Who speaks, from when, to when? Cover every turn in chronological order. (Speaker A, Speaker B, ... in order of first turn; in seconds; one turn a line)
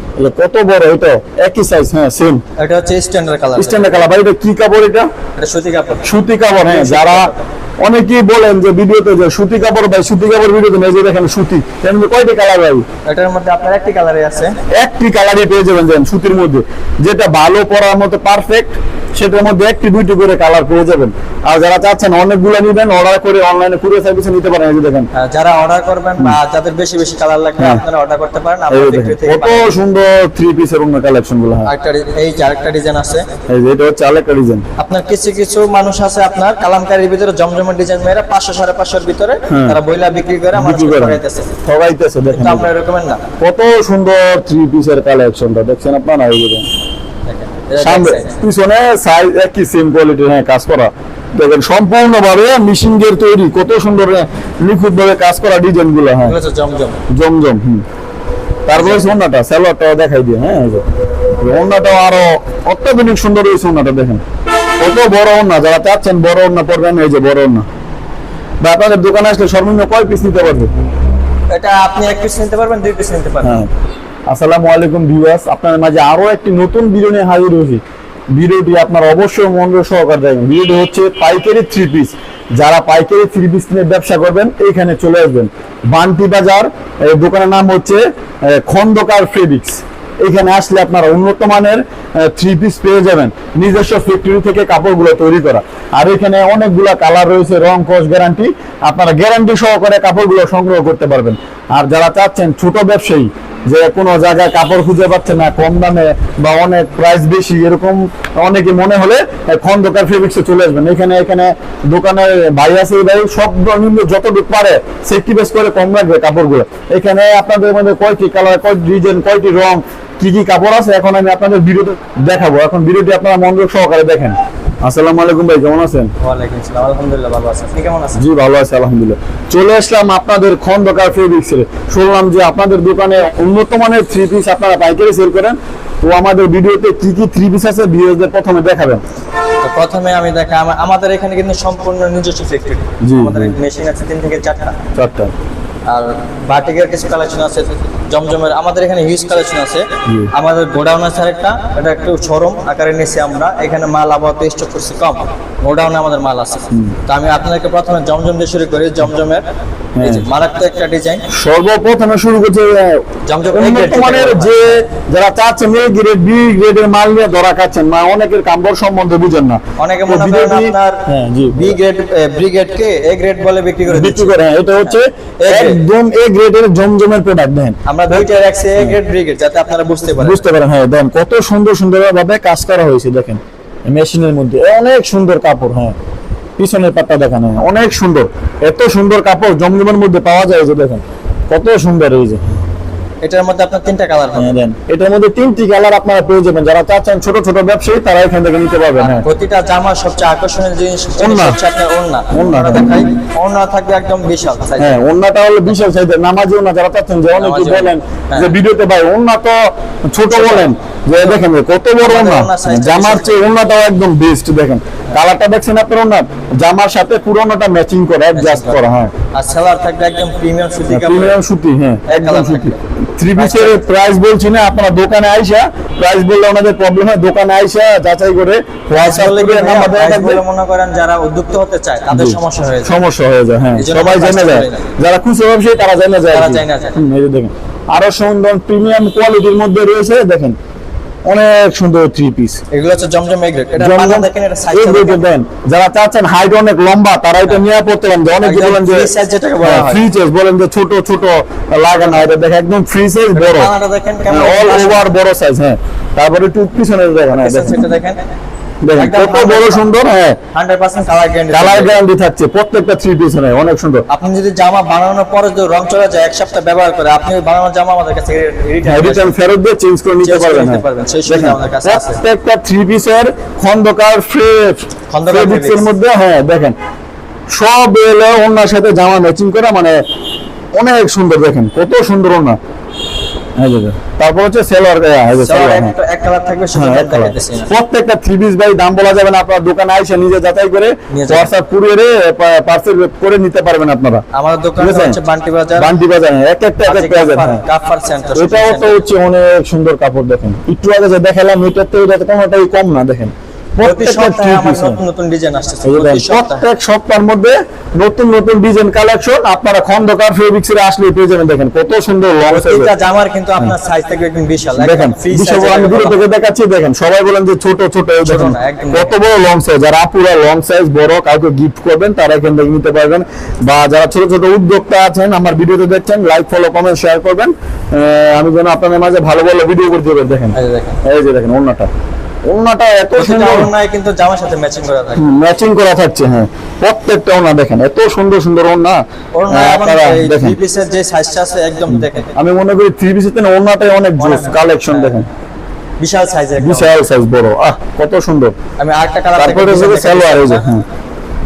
Speaker A: 0.2-2.4
Speaker B: 2.6-4.1
Speaker A: 3.6-5.1
Speaker B: 5.4-6.1
Speaker A: 6.0-7.3
Speaker B: 6.6-7.4
Speaker A: 7.8-12.8
Speaker B: 13.1-14.6
Speaker A: 14.7-25.1
Speaker B: 25.1-29.7
Speaker A: 28.7-31.7
Speaker B: 31.6-33.2
Speaker A: 33.5-34.6
Speaker B: 34.8-41.5
Speaker A: 39.5-39.8
Speaker A: 40.5-42.7
Speaker B: 42.3-43.2
Speaker A: 43.4-46.7
Speaker B: 47.3-48.3
Speaker A: 47.8-56.4
Speaker B: 56.2-57.0
Speaker A: 57.1-57.9
Speaker A: 58.7-60.8
Speaker B: 58.8-59.1
Speaker A: 61.4-64.2
Speaker A: 64.8-67.7
Speaker A: 68.6-70.7
Speaker B: 71.5-73.6
Speaker A: 73.4-73.7
Speaker A: 74.3-77.8
Speaker A: 78.3-126.1
Speaker B: 126.2-128.2
Speaker A: 128.2-139.0
Speaker B: 139.6-144.8
Speaker A: 143.0-143.6
Speaker A: 145.0-145.3
Speaker B: 145.9-159.4
Speaker A: 150.1-150.3
Speaker A: 160.0-160.3
Speaker B: 160.0-161.2
Speaker A: 161.3-171.8
Speaker B: 163.3-164.8
Speaker B: 169.8-174.3
Speaker A: 173.9-179.0
Speaker B: 174.8-175.8
Speaker B: 177.9-180.4
Speaker A: 180.2-186.0
Speaker A: 186.6-192.4
Speaker B: 193.2-194.6
Speaker A: 194.4-199.3
Speaker B: 199.0-205.0
Speaker A: 201.2-201.6
Speaker A: 202.3-202.9
Speaker A: 204.8-219.1
Speaker B: 207.3-208.5
Speaker B: 210.3-211.4
Speaker B: 212.0-213.4
Speaker B: 218.3-218.8
Speaker B: 219.3-221.4
Speaker A: 220.9-230.4
Speaker B: 222.1-222.8
Speaker B: 223.3-223.8
Speaker B: 229.0-233.0
Speaker A: 232.1-240.6
Speaker B: 233.8-234.9
Speaker B: 236.3-237.0
Speaker A: 241.3-242.6
Speaker B: 242.7-245.2
Speaker A: 243.8-249.1
Speaker B: 248.4-250.0
Speaker A: 249.6-253.7
Speaker B: 251.9-252.3
Speaker B: 253.3-255.1
Speaker A: 254.3-257.8
Speaker B: 257.3-258.2
Speaker A: 258.8-260.4
Speaker B: 259.0-259.8
Speaker B: 260.5-262.0
Speaker A: 261.5-264.1
Speaker B: 264.1-269.3
Speaker A: 268.9-276.8
Speaker B: 270.2-272.2
Speaker B: 275.1-275.9
Speaker A: 277.5-280.0
Speaker A: 280.7-282.6
Speaker A: 283.6-285.9
Speaker B: 285.4-287.7
Speaker A: 286.8-294.2
Speaker B: 291.1-291.5
Speaker B: 294.3-295.9
Speaker A: 294.8-295.2
Speaker A: 295.8-297.6
Speaker B: 296.9-299.1
Speaker A: 298.4-305.0
Speaker B: 303.8-306.7
Speaker A: 305.9-312.9
Speaker B: 312.4-316.2
Speaker A: 314.8-331.9
Speaker B: 318.2-319.1
Speaker B: 330.6-331.0
Speaker A: 332.5-333.7
Speaker B: 333.2-335.3
Speaker A: 335.2-340.6
Speaker B: 339.4-342.3
Speaker A: 341.9-345.3
Speaker B: 344.2-345.2
Speaker B: 346.0-346.9
Speaker A: 346.6-348.5
Speaker B: 348.8-350.7
Speaker A: 349.4-350.8